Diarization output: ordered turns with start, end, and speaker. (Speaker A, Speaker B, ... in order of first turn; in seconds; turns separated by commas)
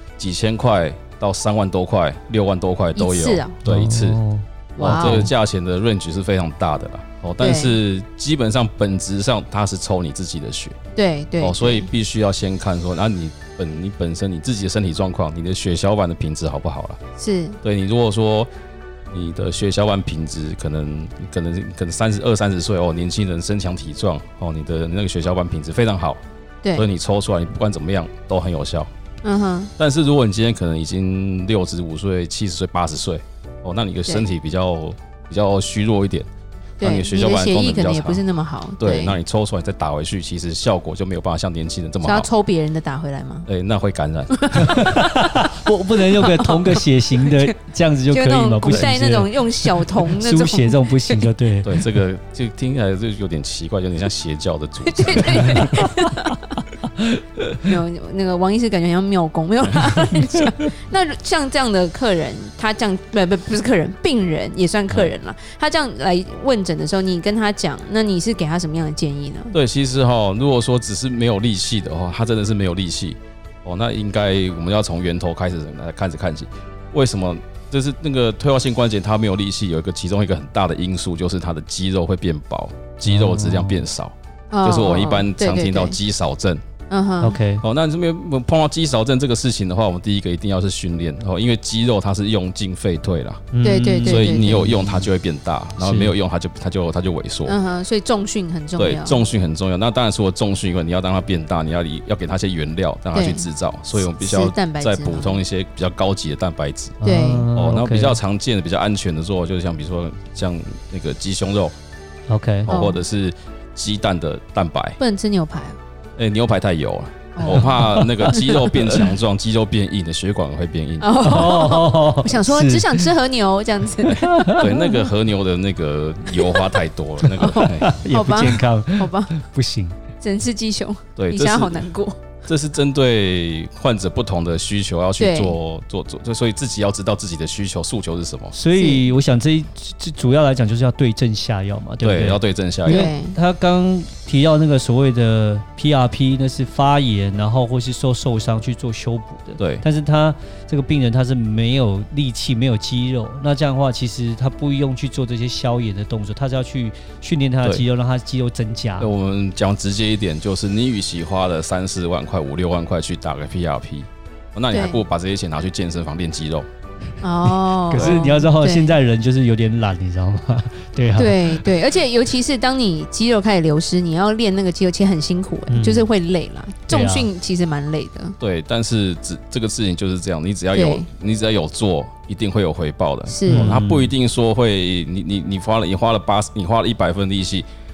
Speaker A: 0.2-4.2, Speaker B: 3.0-3.6, Speaker C: 3.6-5.3, Speaker B: 4.8-5.3, Speaker A: 4.8-10.8, Speaker B: 7.4-7.8, Speaker B: 11.0-11.9, Speaker A: 11.4-17.0, Speaker B: 17.2-17.6, Speaker A: 17.6-18.5, Speaker A: 19.1-26.2, Speaker A: 26.8-28.9, Speaker B: 29.2-29.7, Speaker A: 29.8-36.3, Speaker B: 36.8-39.2, Speaker A: 36.8-38.2, Speaker A: 38.8-42.3, Speaker B: 42.0-43.5, Speaker A: 43.5-44.9, Speaker B: 44.4-45.0, Speaker C: 44.6-51.8, Speaker B: 46.1-47.5, Speaker B: 48.1-51.3, Speaker A: 51.6-55.8, Speaker B: 54.8-56.4, Speaker B: 57.6-69.5, Speaker A: 69.5-86.6, Speaker C: 83.1-83.8, Speaker B: 84.5-86.0, Speaker B: 86.9-87.4, Speaker C: 87.2-87.6, Speaker A: 87.6-93.5, Speaker C: 93.5-95.1, Speaker B: 93.6-94.6, Speaker A: 94.1-97.6, Speaker C: 95.8-96.1, Speaker B: 97.5-99.2, Speaker A: 98.8-107.0, Speaker B: 103.1-105.4, Speaker C: 107.0-108.2, Speaker B: 107.0-107.5, Speaker A: 107.5-111.7, Speaker C: 112.3-112.7, Speaker A: 112.7-115.0, Speaker B: 112.7-113.0, Speaker B: 115.0-115.8, Speaker A: 116.2-121.1, Speaker B: 117.3-117.7, Speaker C: 117.4-118.1, Speaker B: 118.2-118.7, Speaker B: 121.0-124.3, Speaker C: 121.2-123.1, Speaker A: 124.1-127.9, Speaker C: 124.2-124.9, Speaker B: 126.4-126.8, Speaker B: 127.4-129.4, Speaker C: 127.4-130.0, Speaker B: 130.2-132.2, Speaker A: 131.2-131.9, Speaker A: 132.5-138.6, Speaker B: 135.2-135.6, Speaker C: 138.5-159.1, Speaker B: 138.7-139.1, Speaker A: 142.0-143.1, Speaker B: 142.9-143.4, Speaker A: 149.6-149.8, Speaker A: 159.0-166.7, Speaker B: 164.7-165.0, Speaker B: 167.2-169.0, Speaker C: 167.9-171.7, Speaker A: 167.9-168.3, Speaker B: 171.2-178.4, Speaker C: 175.7-176.1, Speaker C: 176.9-177.3, Speaker A: 178.4-187.7, Speaker B: 180.7-181.1, Speaker B: 183.3-183.8, Speaker C: 183.5-184.1